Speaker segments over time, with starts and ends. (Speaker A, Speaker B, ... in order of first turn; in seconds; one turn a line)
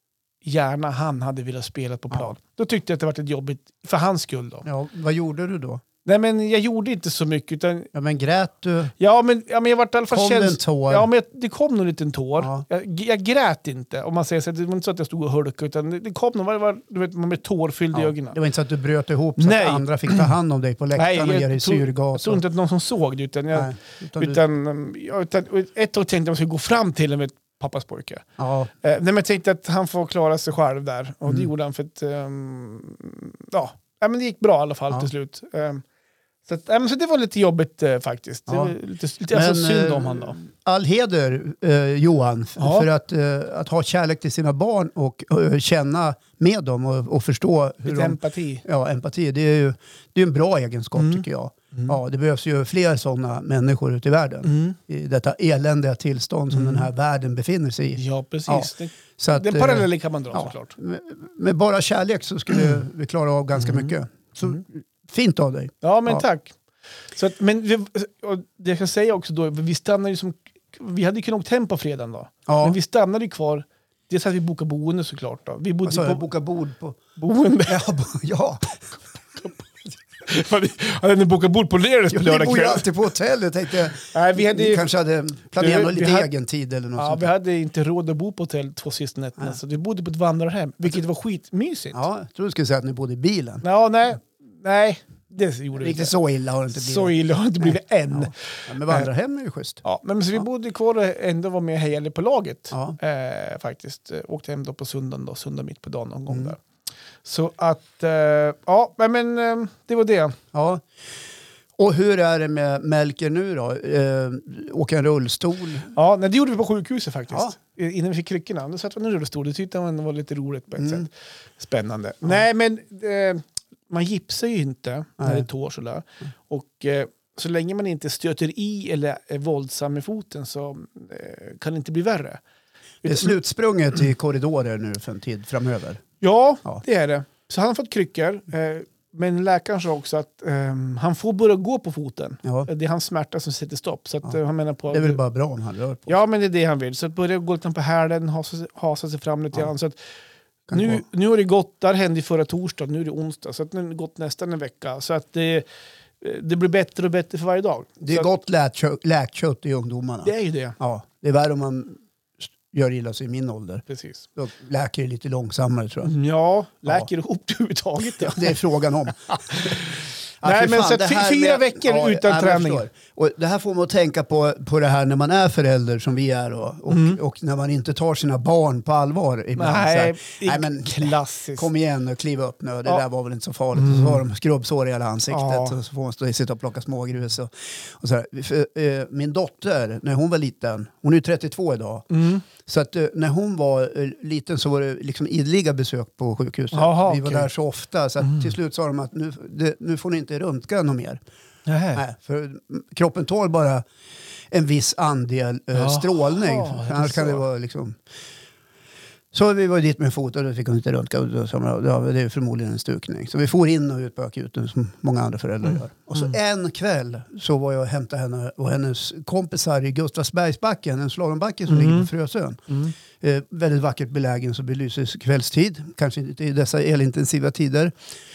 Speaker A: 0.4-4.7
Speaker B: 4.6-5.8
Speaker A: 6.0-7.9
Speaker B: 7.9-8.9
Speaker A: 9.0-18.4
Speaker B: 10.1-11.1
Speaker B: 12.4-12.6
Speaker B: 17.9-22.4
Speaker A: 19.4-20.3
Speaker A: 20.9-28.2
Speaker B: 23.5-24.4
Speaker B: 28.4-28.7
Speaker A: 28.8-35.8
Speaker A: 36.5-40.4
Speaker B: 38.5-38.7
Speaker B: 39.3-66.2
Speaker A: 42.6-42.9
Speaker A: 47.8-48.6
Speaker A: 51.0-52.0
Speaker A: 54.4-54.8
Speaker A: 56.5-56.9
Speaker A: 58.0-60.7
Speaker A: 63.6-63.9
Speaker A: 65.8-66.5
Speaker A: 67.1-76.2
Speaker B: 72.5-72.8
Speaker B: 75.8-77.0
Speaker A: 77.2-77.8
Speaker B: 77.7-78.8
Speaker A: 80.2-82.9
Speaker B: 82.1-87.3
Speaker A: 84.1-84.9
Speaker A: 85.5-86.3
Speaker A: 87.0-92.0
Speaker B: 91.9-93.6
Speaker A: 93.6-96.1
Speaker B: 95.8-99.8
Speaker A: 96.7-99.1
Speaker A: 99.8-106.6
Speaker B: 102.7-103.0
Speaker A: 107.2-110.4
Speaker B: 110.5-110.8
Speaker B: 111.8-115.9
Speaker A: 115.9-132.4
Speaker B: 120.8-121.1
Speaker B: 125.2-125.5
Speaker A: 133.0-133.3
Speaker B: 133.0-136.0
Speaker A: 136.2-145.2
Speaker B: 144.9-146.2
Speaker A: 146.1-150.0
Speaker B: 150.7-151.0
Speaker A: 150.7-155.7
Speaker A: 156.2-158.3
Speaker B: 158.0-162.0
Speaker A: 160.2-160.8
Speaker B: 162.7-166.1
Speaker A: 163.9-164.2
Speaker A: 166.0-168.6
Speaker B: 168.2-169.8
Speaker A: 169.5-172.8
Speaker B: 170.4-201.2
Speaker A: 176.9-177.2
Speaker A: 179.6-181.7
Speaker A: 183.7-184.2
Speaker A: 185.3-185.8
Speaker A: 192.1-192.4
Speaker A: 196.7-197.5
Speaker A: 198.2-198.5
Speaker A: 201.7-202.0
Speaker B: 201.9-203.8
Speaker B: 204.5-208.0
Speaker A: 205.7-207.4
Speaker B: 209.3-227.9
Speaker A: 215.7-216.3
Speaker A: 221.7-222.1